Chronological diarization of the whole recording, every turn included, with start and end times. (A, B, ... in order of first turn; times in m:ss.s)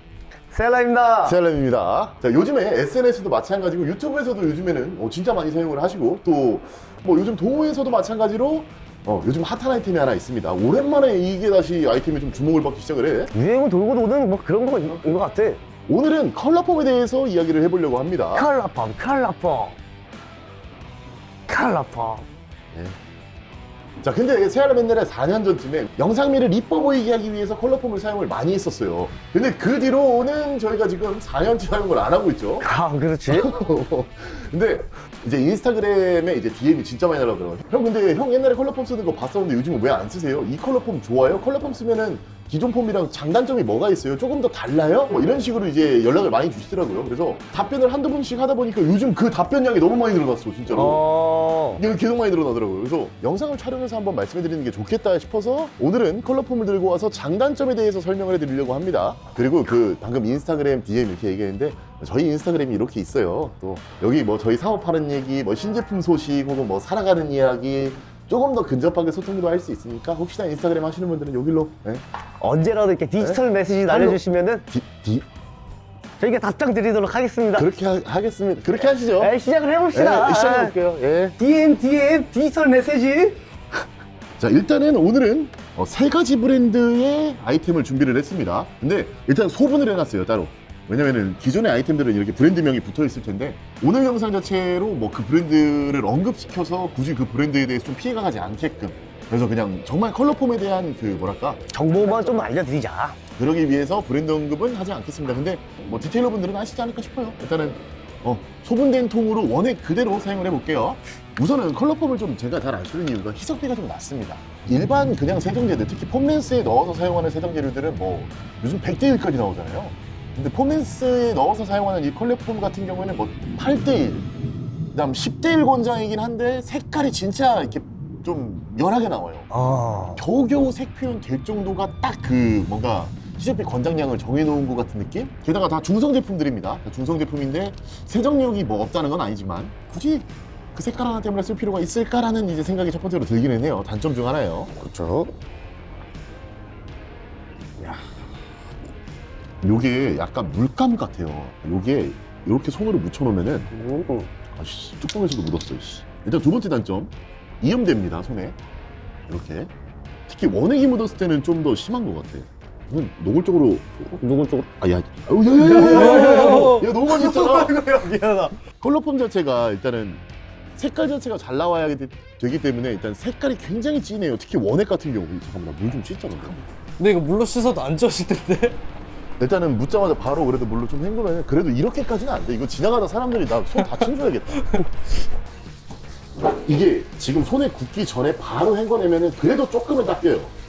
0:00.5-0:01.4 A
0:01.2-0:13.3 B
0:13.3-0:15.6 A
0:15.9-0:18.5 B
0:18.3-0:19.8 A
0:21.5-0:22.3 A
0:22.7-0:23.0 B
0:24.0-0:32.7 B
0:32.6-0:33.5 A
0:33.3-0:51.0 B
0:50.7-0:51.8 A
0:51.8-1:12.0 B
1:12.4-1:14.6 A
1:13.2-1:15.2 B
1:16.2-1:17.7 A
1:17.6-1:19.3 B
1:19.0-1:20.8 A
1:19.9-1:21.4 B
1:21.4-1:23.4 A
1:24.4-1:41.6 B
1:41.7-1:43.2 A
1:43.4-2:04.3 B
2:04.9-2:09.5 B
2:09.5-2:10.2 A
2:10.2-2:24.7 B
2:24.8-2:25.3 A
2:29.6-2:33.7 B
2:33.7-2:34.3 A
2:34.5-2:38.6 B
2:39.3-2:39.7 B
2:40.3-2:44.2 B
2:44.2-2:44.7 A
2:44.8-2:47.8 B
2:45.5-2:48.6 A
2:45.8-2:46.8 C
2:48.8-2:50.2 B
2:50.8-2:56.6 B
2:57.0-2:58.8 C
2:59.4-3:04.8 B
3:06.4-3:10.6 B